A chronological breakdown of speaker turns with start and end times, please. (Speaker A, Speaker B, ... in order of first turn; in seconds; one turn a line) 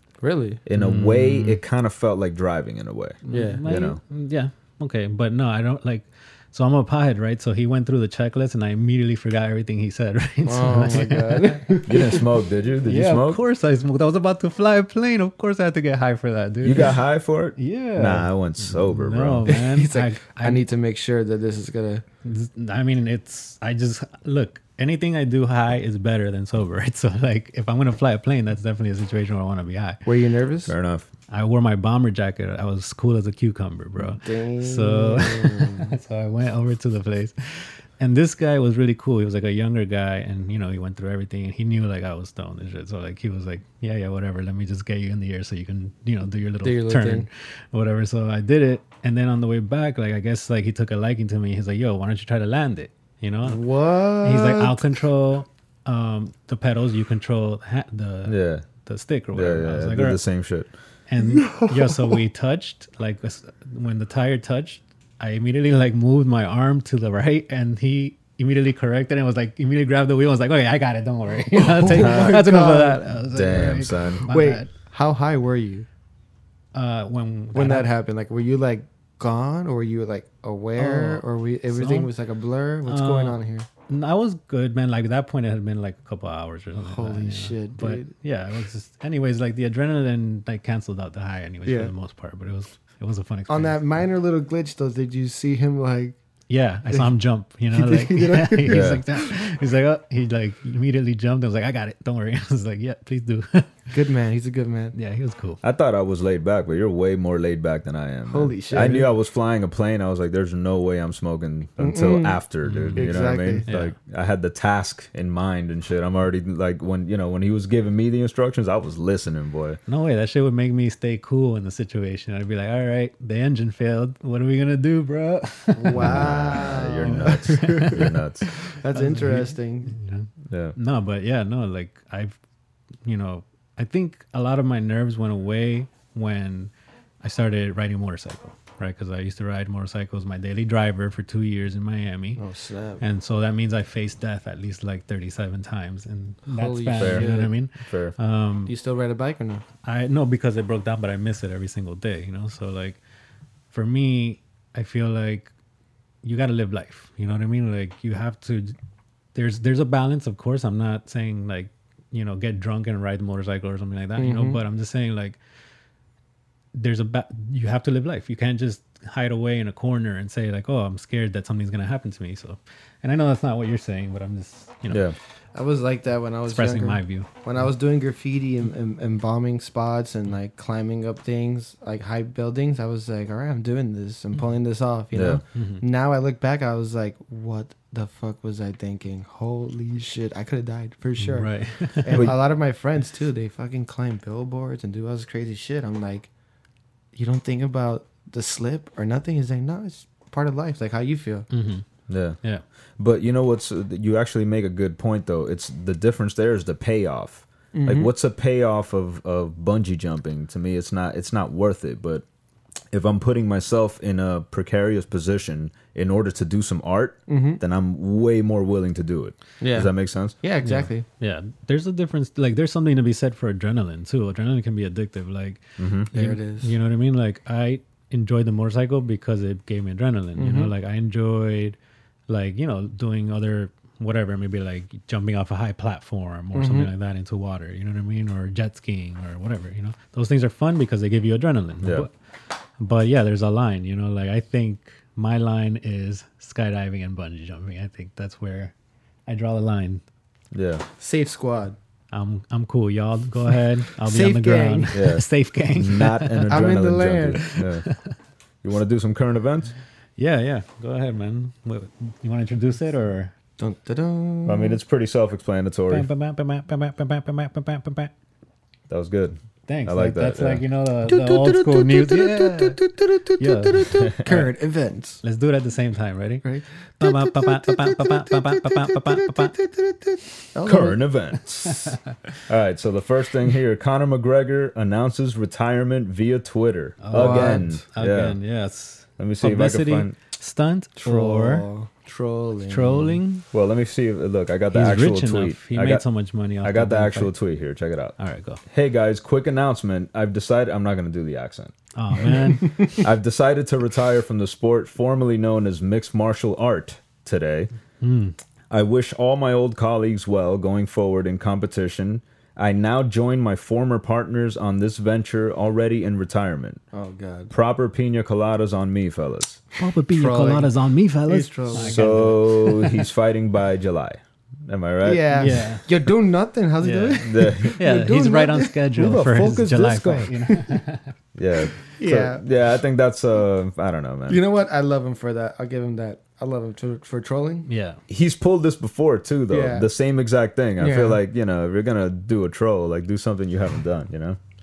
Speaker A: 0.2-0.6
Speaker B: 0.7-4.0
Speaker C: 0.8-1.6
Speaker C: 3.2-11.6
Speaker A: 3.3-3.6
Speaker A: 10.4-12.2
Speaker B: 11.9-13.4
Speaker C: 12.8-17.0
Speaker B: 16.6-19.5
Speaker C: 17.6-20.6
Speaker A: 19.5-22.0
Speaker C: 22.2-30.0
Speaker A: 30.0-30.7
Speaker B: 30.7-31.1
Speaker C: 31.3-53.6
Speaker A: 34.1-36.0
Speaker A: 46.6-47.3
Speaker A: 53.4-54.9
Speaker C: 54.2-60.2
Speaker B: 58.2-58.6
Speaker B: 59.3-60.7
Speaker C: 61.1-74.7
Speaker A: 61.4-62.0
Speaker A: 71.5-73.0
Speaker B: 72.0-72.4
Speaker B: 73.3-74.2
Speaker A: 74.2-75.9
Speaker C: 76.7-77.9
Speaker A: 77.5-83.7
Speaker C: 80.8-82.1
Speaker C: 82.9-83.4
Speaker C: 83.9-93.8
Speaker A: 86.8-88.1
Speaker A: 91.7-91.9
Speaker A: 93.5-96.2
Speaker C: 96.5-103.8
Speaker A: 97.7-99.0
Speaker B: 98.7-99.0
Speaker A: 103.9-104.9
Speaker C: 104.9-105.6
Speaker B: 105.6-119.8
Speaker A: 108.3-109.1
Speaker A: 111.8-112.4
Speaker C: 112.6-113.9
Speaker A: 113.0-113.7
Speaker C: 119.9-132.4
Speaker A: 125.8-129.9
Speaker B: 125.9-128.4
Speaker B: 130.5-130.8
Speaker C: 133.0-136.7
Speaker C: 137.2-142.4
Speaker A: 142.4-143.0
Speaker C: 143.0-148.7
Speaker A: 146.5-147.5
Speaker B: 147.0-148.1
Speaker A: 148.7-149.6
Speaker C: 149.8-153.0
Speaker C: 153.7-155.5
Speaker C: 156.2-158.7
Speaker C: 159.3-165.4
Speaker A: 164.2-164.6
Speaker C: 166.7-175.1
Speaker B: 174.9-175.1
Speaker A: 175.5-196.3
Speaker C: 176.5-177.3
Speaker B: 185.1-185.4
Speaker C: 185.5-185.8
Speaker C: 191.2-192.3
Speaker A: 197.1-201.5
Speaker C: 201.5-201.8
Speaker B: 202.1-202.4
Speaker B: 203.0-212.2
Speaker A: 207.7-208.1
Speaker B: 212.9-220.3
Speaker A: 217.3-217.6
Speaker A: 219.6-221.0
Speaker C: 220.6-231.8
Speaker B: 225.8-226.1
Speaker A: 226.1-226.7
Speaker A: 230.4-230.7
Speaker C: 232.3-242.1
Speaker A: 236.5-236.9
Speaker B: 241.8-242.1
Speaker C: 242.8-248.7
Speaker C: 249.3-250.0
Speaker B: 250.5-250.8
Speaker A: 251.0-251.8
Speaker C: 252.1-256.6
Speaker A: 254.0-255.0
Speaker B: 254.9-257.9
Speaker A: 256.5-257.5
Speaker C: 257.5-258.1
Speaker B: 258.6-259.7
Speaker C: 260.2-263.3
Speaker A: 263.6-264.8
Speaker B: 264.4-266.1
Speaker C: 265.9-268.1
Speaker B: 268.9-270.6
Speaker C: 269.7-272.8
Speaker A: 271.1-275.2
Speaker C: 273.4-274.5
Speaker C: 275.2-276.4
Speaker A: 276.4-281.1
Speaker C: 277.0-279.5
Speaker B: 280.6-281.9
Speaker C: 281.6-282.0
Speaker B: 282.5-288.4
Speaker C: 287.0-291.7
Speaker A: 287.1-287.8
Speaker B: 289.2-290.1
Speaker A: 291.0-293.2
Speaker C: 292.7-293.4
Speaker B: 293.5-296.0
Speaker C: 294.7-297.3
Speaker B: 296.6-302.3
Speaker C: 298.2-298.6
Speaker C: 301.9-303.0
Speaker A: 302.6-303.0
Speaker B: 302.9-307.7
Speaker C: 308.0-308.4
Speaker B: 308.7-316.8
Speaker A: 316.9-317.5
Speaker B: 317.5-319.6
Speaker C: 319.8-322.7
Speaker A: 320.1-320.7
Speaker A: 321.2-322.4
Speaker B: 321.7-325.5
Speaker A: 325.0-328.8
Speaker C: 325.4-325.9
Speaker C: 326.8-331.1
Speaker B: 327.2-327.8
Speaker B: 328.9-330.3
Speaker A: 330.4-330.8
Speaker B: 331.4-334.4
Speaker A: 331.9-332.4
Speaker A: 334.3-337.7
Speaker C: 337.7-338.0
Speaker B: 338.1-344.4
Speaker A: 339.5-339.9
Speaker A: 340.8-341.2